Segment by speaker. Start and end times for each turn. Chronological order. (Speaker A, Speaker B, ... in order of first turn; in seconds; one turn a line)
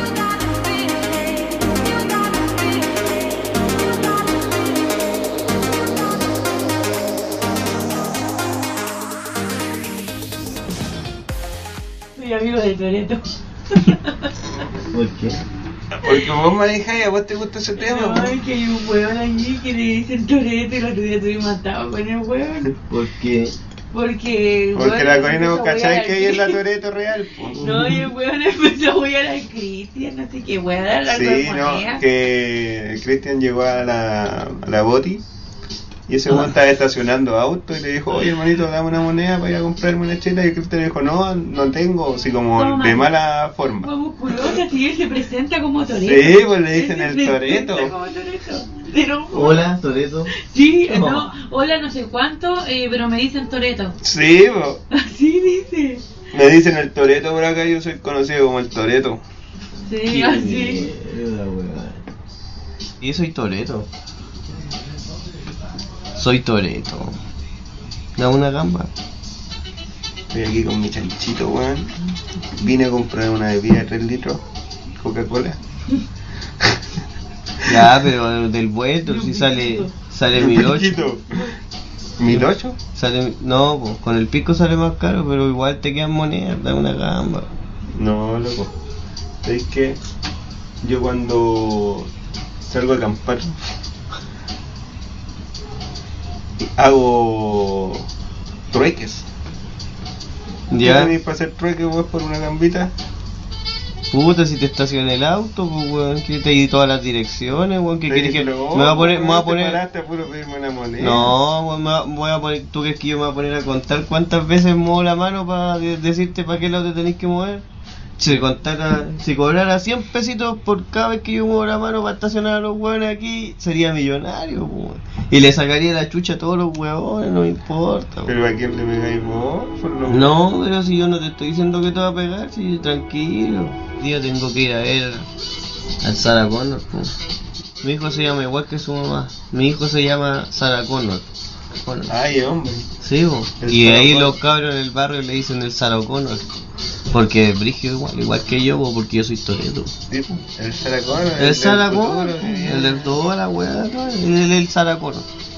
Speaker A: 12.1-14.3
Speaker B: 14.9-15.4
Speaker C: 15.9-18.4
Speaker A: 17.7-22.8
Speaker B: 22.9-23.5
Speaker A: 23.9-26.6
Speaker C: 24.7-27.8
Speaker A: 27.5-32.0
Speaker B: 27.5-28.1
Speaker C: 31.1-35.2
Speaker C: 36.1-43.9
Speaker B: 36.3-36.5
Speaker A: 42.5-43.1
Speaker A: 43.8-49.7
Speaker C: 45.9-47.9
Speaker B: 49.3-50.3
Speaker A: 50.3-54.0
Speaker B: 50.9-51.3
Speaker C: 54.0-54.8
Speaker A: 54.9-56.0
Speaker C: 56.3-59.2
Speaker A: 59.9-60.9
Speaker B: 60.0-62.0
Speaker B: 63.0-63.9
Speaker B: 66.1-67.2
Speaker B: 68.2-68.9
Speaker C: 70.3-72.0
Speaker C: 72.5-74.4
Speaker C: 74.9-75.6
Speaker B: 77.7-81.0
Speaker A: 79.0-79.9
Speaker C: 80.3-81.5
Speaker C: 82.2-82.8
Speaker B: 82.3-87.5
Speaker C: 87.9-88.7
Speaker C: 89.4-90.0
Speaker C: 90.8-92.1
Speaker C: 92.6-93.6
Speaker C: 96.6-98.1
Speaker C: 98.7-99.3
Speaker B: 100.7-101.2
Speaker C: 100.7-102.9
Speaker B: 104.1-109.8
Speaker C: 108.1-111.3
Speaker B: 111.0-117.6
Speaker B: 118.2-128.4
Speaker C: 128.3-130.4
Speaker B: 130.1-135.3
Speaker B: 136.0-137.1
Speaker B: 137.8-141.2
Speaker B: 141.8-142.1
Speaker C: 142.1-142.9
Speaker B: 143.0-146.5
Speaker C: 143.6-144.4
Speaker B: 147.1-149.9
Speaker C: 150.1-153.2
Speaker B: 151.4-155.3